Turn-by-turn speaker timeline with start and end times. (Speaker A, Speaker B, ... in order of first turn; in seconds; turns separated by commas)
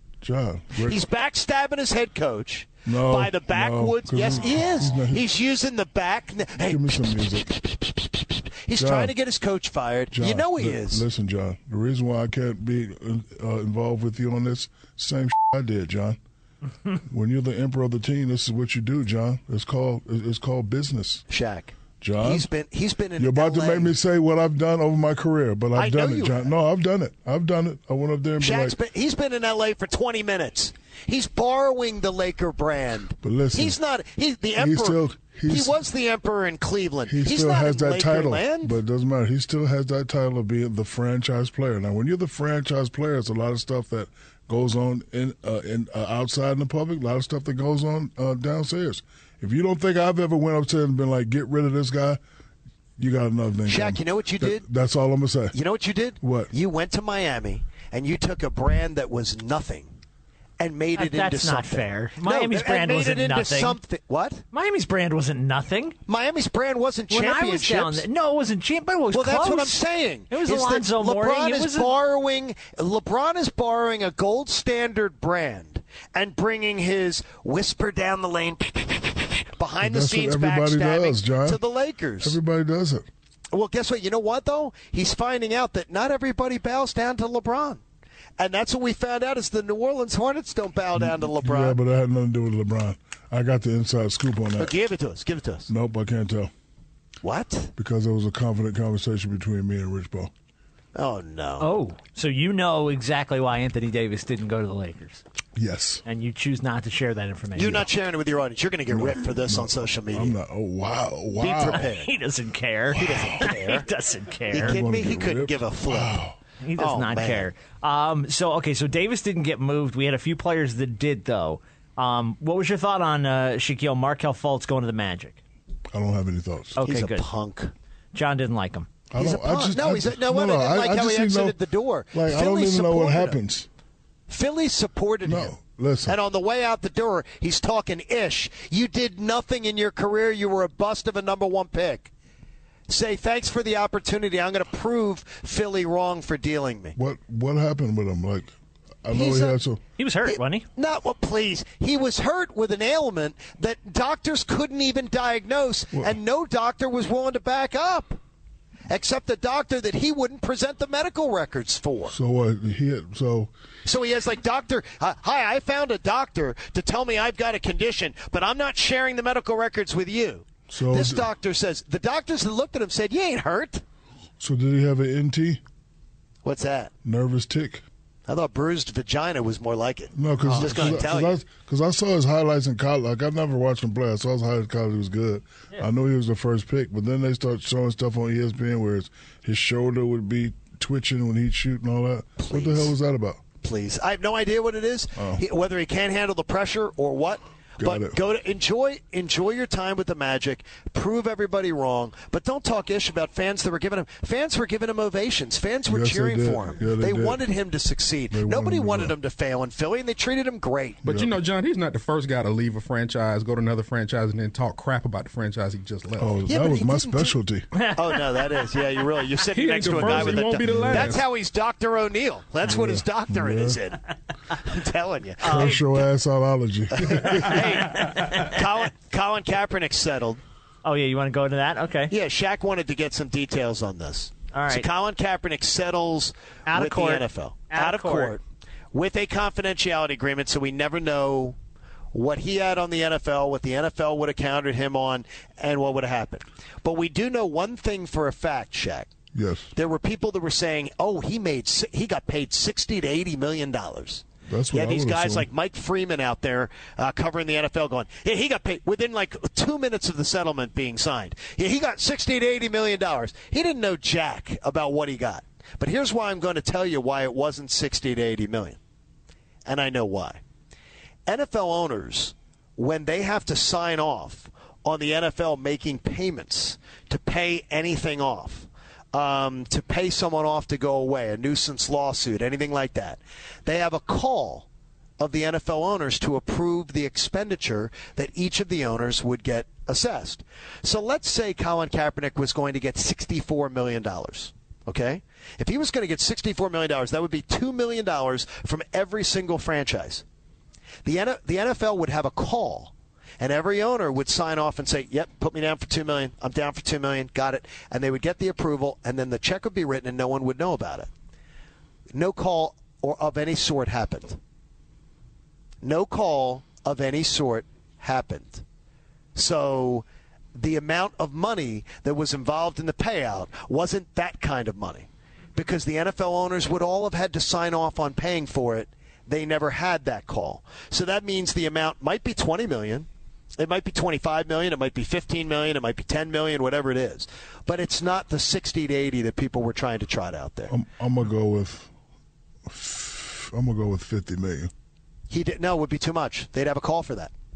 Speaker A: 0.2-1.0, Speaker B: 0.8-11.0, Speaker A: 2.9-5.3, Speaker A: 6.6-7.5, Speaker A: 8.8-9.1, Speaker A: 10.1-16.2, Speaker A: 17.1-21.2, Speaker B: 21.3-23.9, Speaker A: 22.0-22.5, Speaker A: 23.2-28.8, Speaker B: 25.8-26.4, Speaker B: 28.4-38.8, Speaker A: 33.2-33.8, Speaker A: 34.6-35.8, Speaker A: 37.1-52.2, Speaker A: 53.0-55.6, Speaker B: 53.7-54.6, Speaker B: 55.5-59.9, Speaker A: 56.2-56.5, Speaker B: 60.6-64.4, Speaker C: 61.0-63.8, Speaker C: 64.5-66.0, Speaker B: 66.1-68.0, Speaker C: 67.1-69.8, Speaker B: 69.1-82.4, Speaker C: 70.3-71.9, Speaker A: 79.8-81.6, Speaker A: 82.2-83.1, Speaker B: 83.5-87.8, Speaker B: 88.4-91.8, Speaker A: 91.0-94.7, Speaker B: 94.6-95.7, Speaker A: 95.7-96.5, Speaker B: 97.2-97.7, Speaker A: 97.8-100.3, Speaker B: 101.0-101.7, Speaker C: 101.6-105.2, Speaker A: 105.6-106.0, Speaker C: 106.1-107.9, Speaker B: 107.5-110.3, Speaker A: 107.6-107.9, Speaker A: 108.9-111.9, Speaker B: 111.4-112.1, Speaker C: 111.8-114.8, Speaker A: 112.9-113.5, Speaker B: 113.0-113.9, Speaker B: 114.5-116.2, Speaker A: 114.5-116.4, Speaker C: 116.6-125.4, Speaker B: 116.8-117.5, Speaker A: 125.9-126.8, Speaker C: 126.8-127.3, Speaker B: 126.8-127.7, Speaker C: 128.1-128.9, Speaker A: 129.1-131.6, Speaker B: 129.2-133.4, Speaker A: 132.1-133.7, Speaker B: 134.3-135.5, Speaker A: 135.2-136.2, Speaker B: 136.1-142.1, Speaker B: 142.9-147.0, Speaker A: 147.0-148.5, Speaker A: 149.0-149.8, Speaker B: 149.1-149.6, Speaker C: 150.0-150.7, Speaker B: 150.3-158.2, Speaker B: 158.9-162.2, Speaker A: 162.1-163.5, Speaker B: 163.8-173.8, Speaker A: 170.7-171.3, Speaker A: 174.4-175.6, Speaker B: 176.4-176.9, Speaker A: 177.0-177.8, Speaker B: 178.3-181.4, Speaker A: 180.1-193.4, Speaker C: 180.6-181.0, Speaker B: 192.4-192.9, Speaker B: 193.6-211.0, Speaker A: 195.2-195.4, Speaker A: 197.8-198.2, Speaker A: 205.9-207.4, Speaker A: 208.3-209.2, Speaker D: 211.0-216.3, Speaker A: 211.0-211.3, Speaker A: 216.2-217.7, Speaker B: 216.5-217.4, Speaker B: 217.9-224.0, Speaker D: 219.5-221.2, Speaker A: 220.0-221.2, Speaker A: 222.6-223.8, Speaker B: 224.6-225.8, Speaker C: 225.4-225.9, Speaker A: 225.4-227.8, Speaker B: 227.0-230.4, Speaker C: 227.6-228.5, Speaker C: 230.8-232.1, Speaker B: 232.1-238.4, Speaker C: 234.5-234.9, Speaker C: 236.7-238.4, Speaker B: 238.9-241.6, Speaker B: 242.1-249.1, Speaker A: 249.3-249.7, Speaker B: 249.8-268.8, Speaker A: 254.5-255.5, Speaker B: 269.6-270.4, Speaker B: 271.3-284.7, Speaker B: 285.2-300.2, Speaker B: 301.1-311.1, Speaker B: 312.1-314.4, Speaker B: 315.8-318.6, Speaker B: 319.4-340.7, Speaker A: 340.7-341.9, Speaker A: 342.7-344.7, Speaker B: 345.3-347.3